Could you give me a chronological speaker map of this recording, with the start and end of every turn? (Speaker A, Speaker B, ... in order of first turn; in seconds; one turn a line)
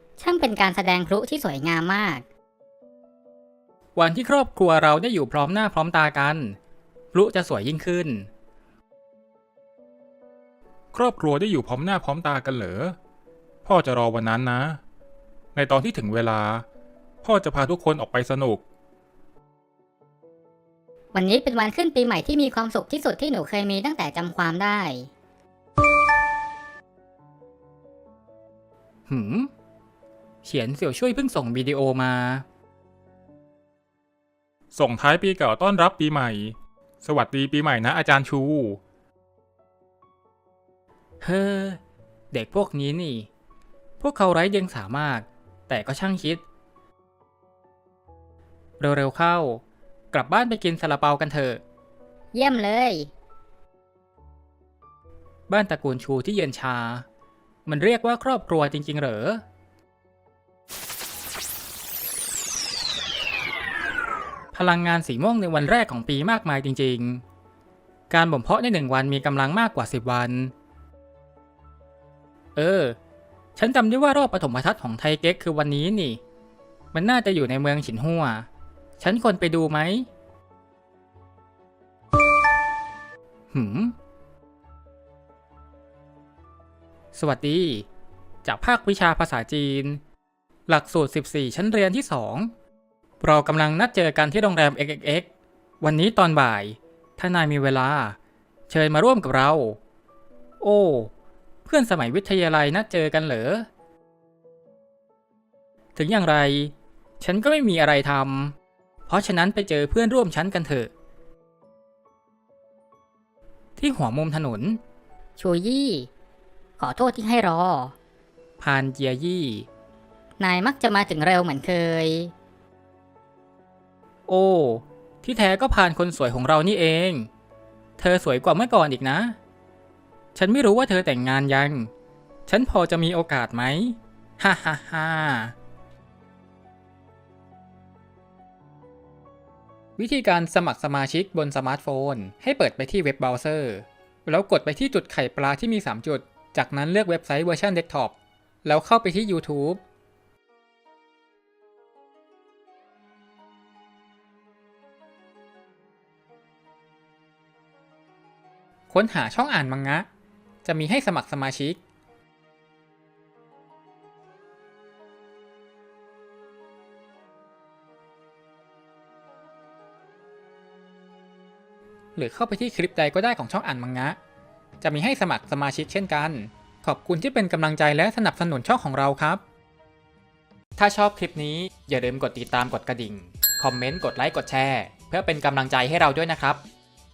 Speaker A: 0.2-2.2
Speaker B: 4.0-6.6
Speaker B: 7.1-8.3
Speaker C: 10.9-13.0
Speaker C: 13.7-14.8
Speaker C: 15.6-16.7
Speaker C: 17.2-18.6
Speaker A: 21.1-25.1
Speaker B: 29.1-29.5
Speaker B: 30.4-32.5
Speaker C: 34.7-38.8
Speaker B: 41.2-41.8
Speaker B: 42.3-43.3
Speaker B: 44.0-46.4
Speaker B: 48.8-51.6
Speaker A: 52.3-53.1
Speaker B: 55.5-57.0
Speaker B: 57.7-59.4
Speaker B: 64.5-67.2
Speaker B: 68.1-70.5
Speaker B: 72.5-73.0
Speaker B: 73.6-76.2
Speaker B: 76.9-78.5
Speaker B: 79.0-80.1
Speaker B: 83.5-84.0
Speaker B: 87.1-87.9
Speaker B: 88.4-90.0
Speaker B: 90.7-92.5
Speaker B: 93.2-95.3
Speaker B: 95.8-98.2
Speaker B: 98.7-99.8
Speaker B: 100.6-101.1
Speaker B: 101.7-103.7
Speaker B: 106.0-108.5
Speaker B: 109.1-110.9
Speaker B: 113.8-114.8
Speaker A: 115.4-116.1
Speaker A: 116.8-117.9
Speaker B: 118.6-119.7
Speaker A: 120.4-122.3
Speaker B: 124.3-127.3
Speaker B: 128.0-129.4
Speaker B: 130.3-131.9
Speaker B: 132.5-135.5
Speaker B: 140.0-149.8
Speaker B: 158.9-160.1
Speaker B: 160.6-161.8
Speaker B: 172.2-174.2
Speaker B: 174.8-179.4
Speaker B: 180.8-186.6